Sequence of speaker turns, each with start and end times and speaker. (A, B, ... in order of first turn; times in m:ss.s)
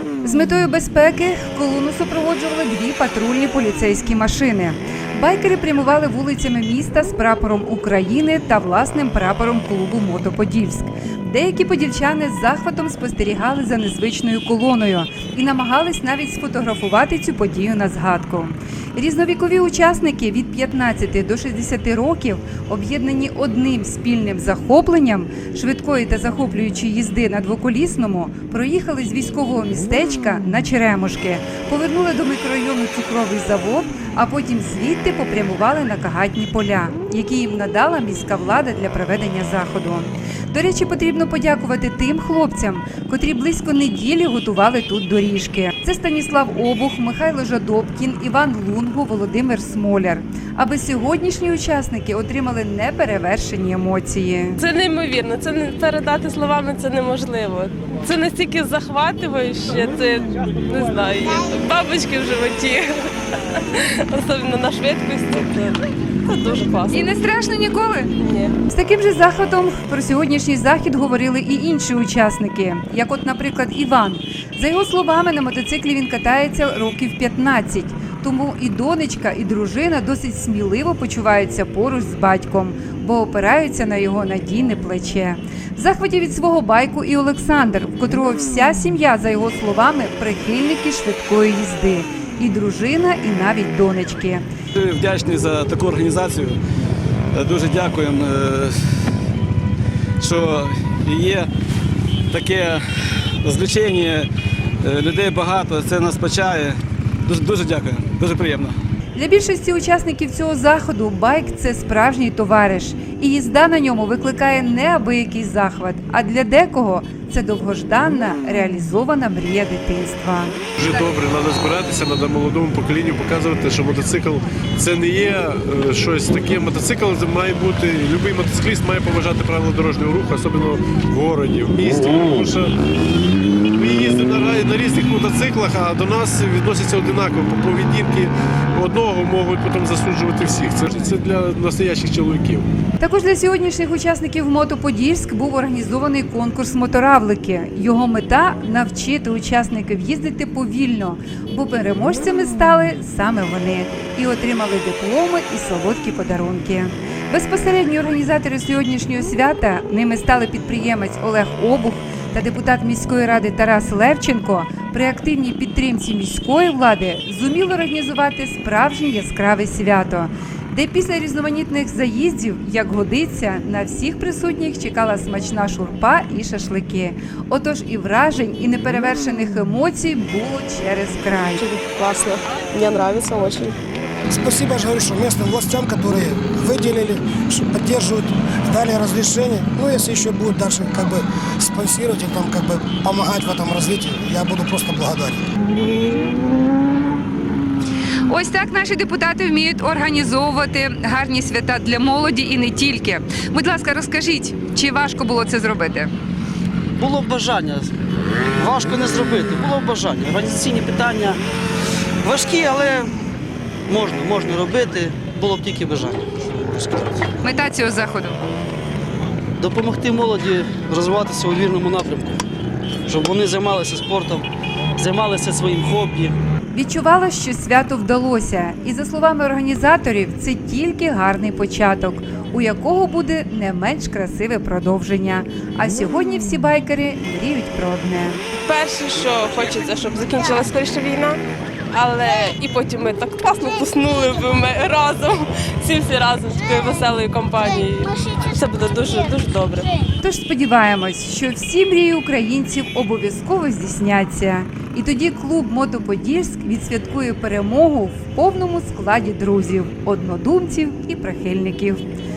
0:00.2-0:54.6 A
0:54.6-1:07.1 B
1:06.9-1:08.1 A
1:08.2-1:08.6 B
1:08.7-1:34.4 A
1:34.8-1:36.6 C
1:37.3-1:38.9 C
1:40.2-1:41.5 C
1:42.3-1:44.3 C
1:44.8-1:48.8 C
1:49.2-2:01.1 A
2:00.8-2:12.7 D
2:13.8-2:22.7 D
2:23.0-3:01.6 A
3:01.6-3:03.8 B
3:04.3-3:15.4 E
3:18.3-3:26.1 A
3:27.0-3:27.9 F
3:28.6-3:31.4 F
3:32.2-3:33.1 F
3:33.9-3:37.3 F
3:37.4-3:38.4 A
3:39.6-3:42.4 F
3:43.1-3:46.4 F
3:46.7-3:58.4 A
3:58.6-4:01.4 B
4:01.9-4:09.9 B
4:10.2-4:22.0 A